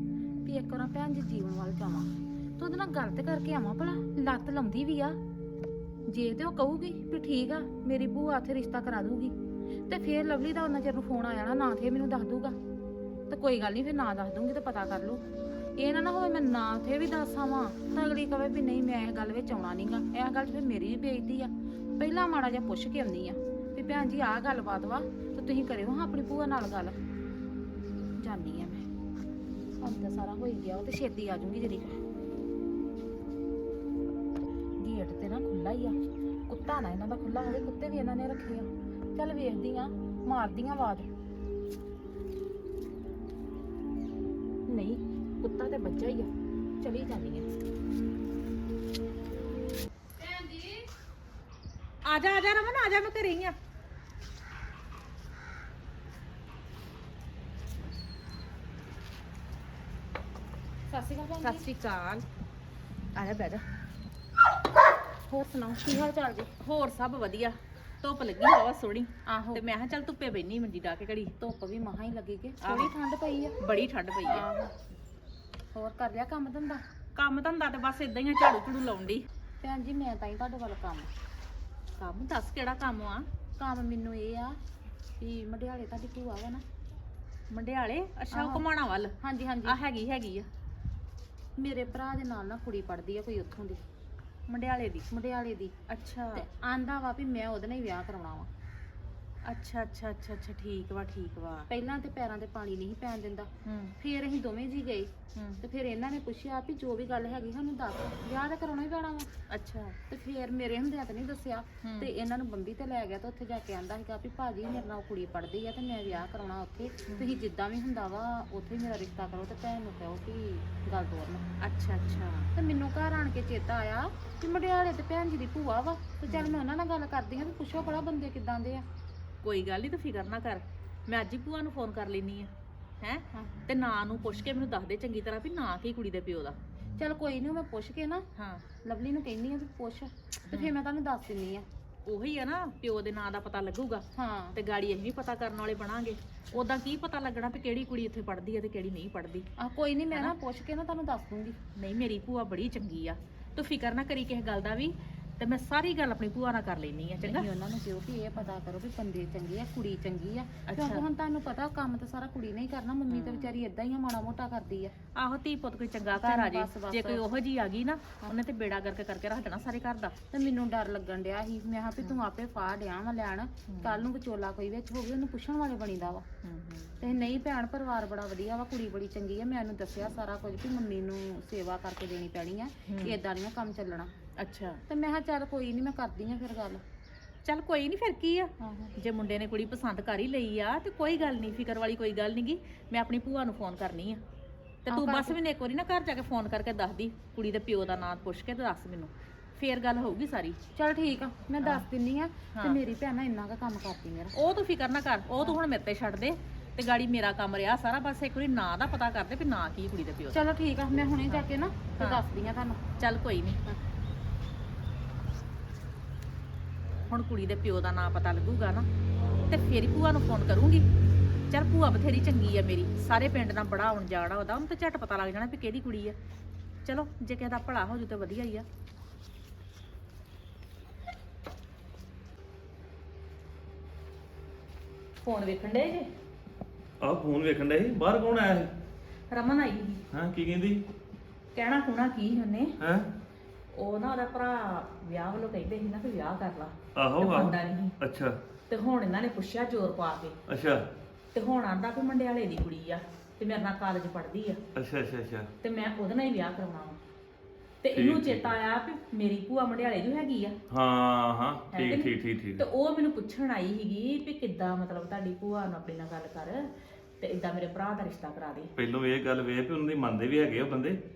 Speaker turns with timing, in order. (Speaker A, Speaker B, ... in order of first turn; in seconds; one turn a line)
Speaker A: 0.4-5.2
Speaker A: 6.1-9.3
Speaker A: 9.9-12.6
Speaker A: 13.3-15.2
Speaker A: 15.8-26.9
Speaker A: 28.2-28.8
Speaker A: 29.8-32.0
Speaker A: 34.8-36.0
Speaker A: 36.5-41.1
Speaker A: 44.7-46.3
Speaker A: 46.8-47.5
Speaker A: 50.2-50.9
Speaker B: 52.0-53.5
Speaker A: 60.9-61.6
Speaker B: 61.4-62.2
Speaker B: 63.1-63.6
Speaker A: 65.3-66.5
Speaker B: 66.6-71.3
Speaker A: 69.3-69.6
Speaker A: 71.4-73.5
Speaker B: 72.6-72.9
Speaker B: 73.6-74.5
Speaker A: 74.2-74.7
Speaker A: 75.7-76.8
Speaker B: 77.1-79.2
Speaker A: 79.6-81.1
Speaker B: 82.0-83.2
Speaker A: 83.6-84.6
Speaker A: 85.2-86.6
Speaker B: 87.5-90.5
Speaker A: 88.3-88.6
Speaker A: 89.2-89.8
Speaker A: 91.6-93.8
Speaker B: 94.5-95.0
Speaker A: 95.1-95.7
Speaker B: 95.9-96.4
Speaker A: 96.3-98.5
Speaker B: 99.4-101.7
Speaker A: 101.7-103.5
Speaker B: 103.6-103.9
Speaker A: 104.0-105.1
Speaker B: 105.3-105.6
Speaker A: 105.6-109.3
Speaker B: 109.5-110.0
Speaker A: 110.1-121.5
Speaker B: 111.8-112.1
Speaker B: 117.0-117.4
Speaker B: 121.6-122.5
Speaker A: 122.5-128.8
Speaker B: 126.3-126.6
Speaker B: 129.4-136.6
Speaker A: 133.3-133.6
Speaker A: 137.0-138.2
Speaker B: 138.3-138.7
Speaker A: 138.8-141.7
Speaker B: 140.5-140.7
Speaker B: 142.1-149.5
Speaker A: 144.2-144.5
Speaker A: 149.6-151.6
Speaker B: 150.1-150.3
Speaker B: 151.8-157.5
Speaker A: 157.2-164.9
Speaker B: 160.6-161.1
Speaker B: 163.1-163.6
Speaker B: 165.1-170.1
Speaker A: 166.1-167.2
Speaker A: 170.3-176.2
Speaker B: 173.7-174.1
Speaker B: 176.4-177.1
Speaker A: 177.0-184.1
Speaker B: 182.8-183.2
Speaker B: 184.4-184.8
Speaker A: 184.9-186.8
Speaker B: 187.4-194.2
Speaker A: 188.6-188.9
Speaker A: 194.9-195.4
Speaker B: 194.9-200.6
Speaker A: 200.8-204.3
Speaker B: 201.6-201.8
Speaker B: 202.5-202.8
Speaker B: 204.3-210.4
Speaker A: 210.3-212.8
Speaker B: 211.2-212.2
Speaker B: 213.0-213.6
Speaker B: 217.1-218.9
Speaker B: 219.5-220.8
Speaker B: 221.5-226.1
Speaker B: 226.8-228.6
Speaker B: 235.2-236.1
Speaker C: 237.0-238.7
Speaker B: 239.3-240.0
Speaker C: 240.1-240.8
Speaker B: 241.5-242.7
Speaker C: 242.8-243.1
Speaker B: 243.7-247.9
Speaker C: 246.9-248.4
Speaker B: 248.7-250.4
Speaker C: 250.5-250.8
Speaker B: 251.3-254.6
Speaker C: 254.8-255.5
Speaker B: 255.6-257.0
Speaker B: 257.8-260.6
Speaker C: 257.9-258.5
Speaker C: 260.7-262.6
Speaker B: 261.7-266.7
Speaker B: 267.2-268.7
Speaker C: 268.8-271.0